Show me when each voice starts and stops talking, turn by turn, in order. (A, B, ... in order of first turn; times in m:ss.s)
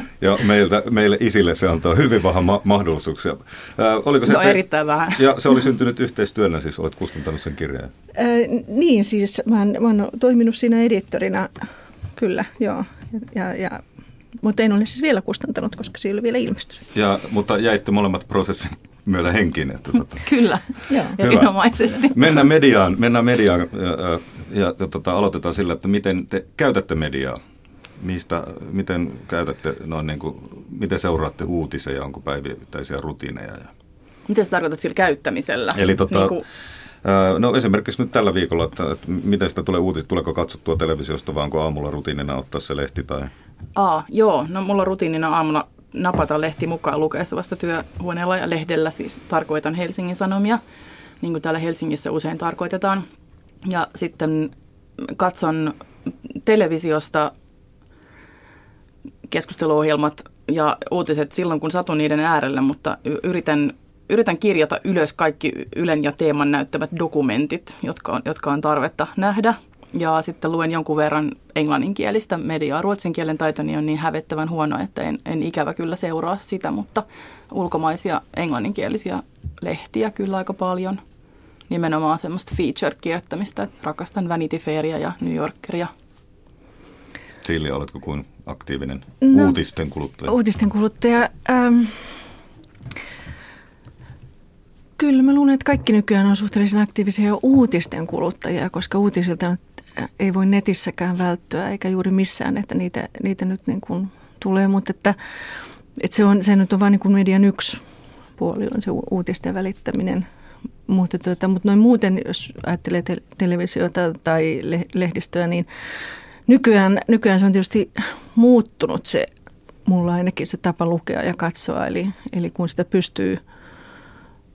0:00.2-0:04.6 A
0:04.2-0:05.2 B
0:05.1-0:07.9 A
0:08.1-0:11.6 C
0:12.2-0:13.8 C
0:14.4-0:16.8 C
0:16.9-0:20.2 A
0:20.2-0:22.4 B
0:20.9-0:21.2 C
0:21.2-0:21.5 A
0:22.1-0:27.4 A
0:28.0-0:33.7 A
0:34.3-0:36.4 B
0:35.7-0:36.4 A
0:37.0-0:43.3 A
0:43.8-0:50.6 B
0:51.2-0:53.0 B
0:53.6-0:55.8 B
0:56.3-0:57.3 B
0:59.3-1:21.0 B
1:21.7-1:25.9 B
1:27.4-1:30.3 A
1:29.2-1:29.6 C
1:30.3-1:32.1 C
1:35.0-1:45.2 C
1:46.0-1:47.8 C
1:48.4-1:50.2 C
1:50.9-1:55.7 C
1:56.5-1:59.3 C
1:59.9-2:03.4 C